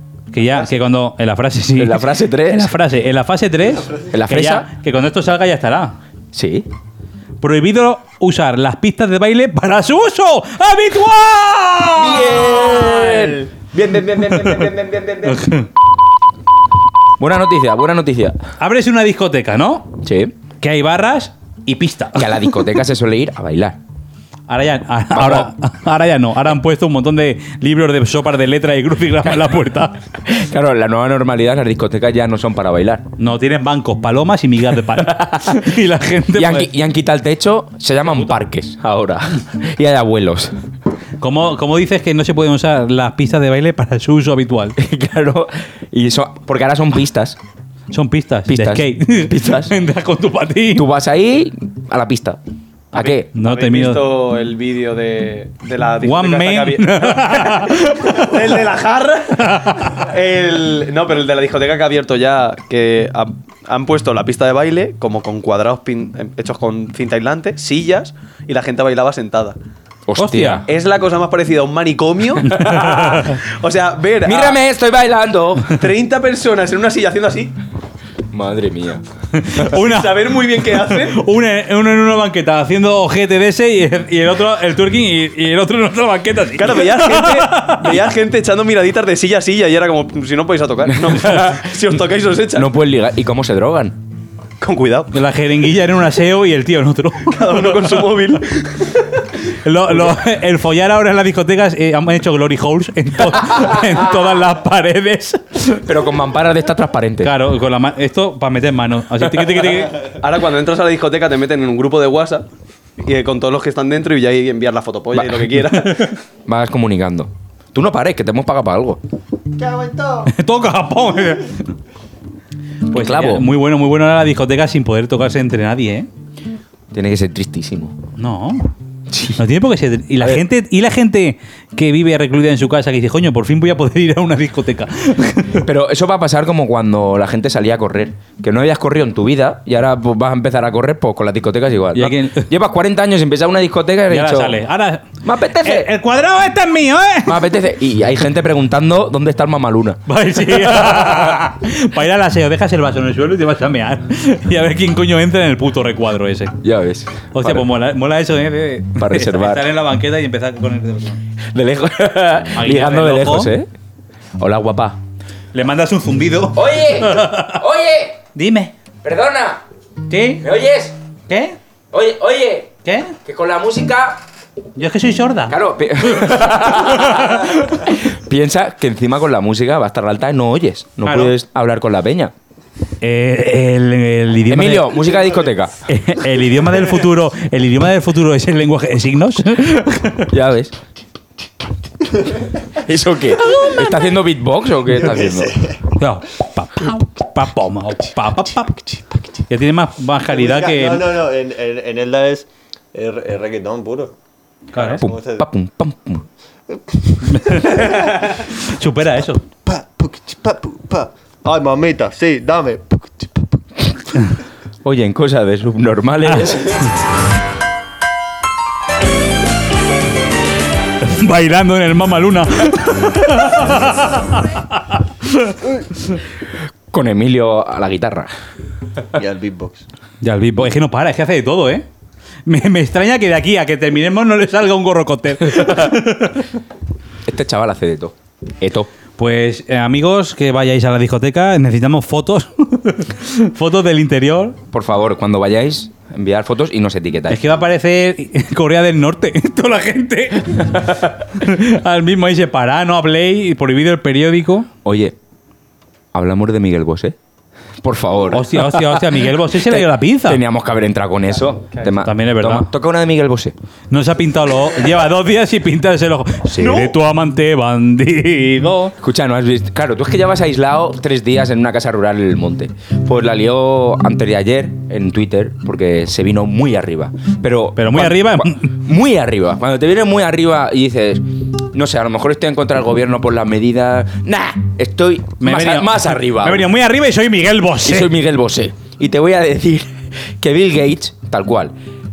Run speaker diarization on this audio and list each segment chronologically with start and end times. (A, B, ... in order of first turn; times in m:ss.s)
0:00.3-0:06.0 A
0:01.8-0:02.7 B
0:04.1-0:04.7 B
0:06.3-0:06.7 B
0:07.4-0:12.4 A
0:11.9-0:15.5 B
0:15.2-0:15.7 A
0:17.2-0:18.4 B
0:18.6-0:20.0 A
0:20.0-0:20.3 B
0:20.6-0:22.5 A
0:22.1-0:23.8 B
0:24.5-0:30.0 A
0:25.1-0:25.5 B
0:30.2-0:33.0 B
0:33.2-0:36.7 A
0:35.0-0:35.6 B
0:36.3-0:40.5 B
0:41.2-0:44.8 A
0:44.8-0:47.4 B
0:47.9-0:50.8 A
0:48.5-0:49.7 B
0:50.7-0:52.4 B
0:52.9-0:53.3 B
0:53.0-0:54.0 A
0:53.0-1:09.6 C
0:56.0-0:58.3 A
0:59.4-1:00.0 A
1:10.1-1:10.7 B
1:10.2-1:10.6 A
1:10.6-1:14.6 C
1:12.4-1:13.4 A
1:14.2-1:15.8 B
1:15.7-1:17.5 C
1:18.3-1:19.0 B
1:19.3-1:28.0 A
1:19.8-1:21.2 C
1:26.6-1:32.7 C
1:32.5-1:34.0 B
1:34.6-1:35.1 C
1:35.1-1:37.8 A
1:37.3-1:39.2 C
1:39.5-1:45.8 A
1:45.8-1:47.3 B
1:47.2-1:50.0 A
1:50.1-1:52.4 C
1:53.0-1:56.1 C
1:55.1-1:55.5 B
1:56.4-1:59.0 B
1:59.6-2:00.3 D
2:00.2-2:01.6 A
2:02.9-2:03.5 B
2:02.9-2:06.1 A
2:06.9-2:08.0 B
2:08.2-2:08.6 A
2:09.1-2:09.4 B
2:09.4-2:15.6 A
2:10.2-2:10.4 B
2:15.6-2:24.6 B
2:21.9-2:22.5 A
2:24.1-2:25.0 A
2:25.2-2:25.9 B
2:25.6-2:27.4 A
2:27.2-2:31.4 B
2:30.1-2:36.5 A
2:36.6-2:37.7 B
2:37.3-2:41.2 A
2:39.0-2:39.7 B
2:41.5-2:43.7 B
2:42.5-2:43.5 A
2:44.4-2:45.0 B
2:45.5-2:47.6 A
2:46.5-2:48.2 B
2:48.3-2:48.7 A
2:49.0-2:49.6 B
2:50.1-2:50.4 A
2:50.4-2:51.0 B
2:51.3-2:51.6 A
2:51.9-2:54.2 B
2:52.8-2:53.1 A
2:54.8-2:55.6 A
2:55.5-3:02.3 B
2:56.9-2:57.5 A
3:01.0-3:01.3 A
3:03.0-3:04.9 A
3:04.5-3:05.8 B
3:05.9-3:10.3 A
3:10.3-3:10.7 B
3:12.7-3:15.6 B
3:15.1-3:15.7 D
3:16.0-3:18.9 A
3:19.5-3:21.1 A
3:20.3-3:24.1 D
3:24.7-3:25.0 A
3:24.9-3:25.4 D
3:24.9-3:26.2 B
3:26.9-3:27.8 D
3:27.3-3:29.4 A
3:29.6-3:33.5 D
3:34.8-3:36.9 B
3:41.0-3:45.6 A
3:46.9-3:48.3 B
3:49.1-3:49.8 D
3:50.2-3:51.8 A
3:52.5-3:56.5 A
3:57.2-3:58.9 B
3:59.2-4:04.6 A
4:04.7-4:07.4 B
4:07.3-4:14.7 A
4:14.8-4:15.2 B
4:16.1-4:17.2 B
4:17.8-4:23.5 B
4:18.3-4:20.4 A
4:22.0-4:22.7 A
4:23.9-4:28.9 A
4:29.0-4:46.7 B
4:37.8-4:38.7 A
4:45.4-4:48.1 A
4:47.8-4:51.7 B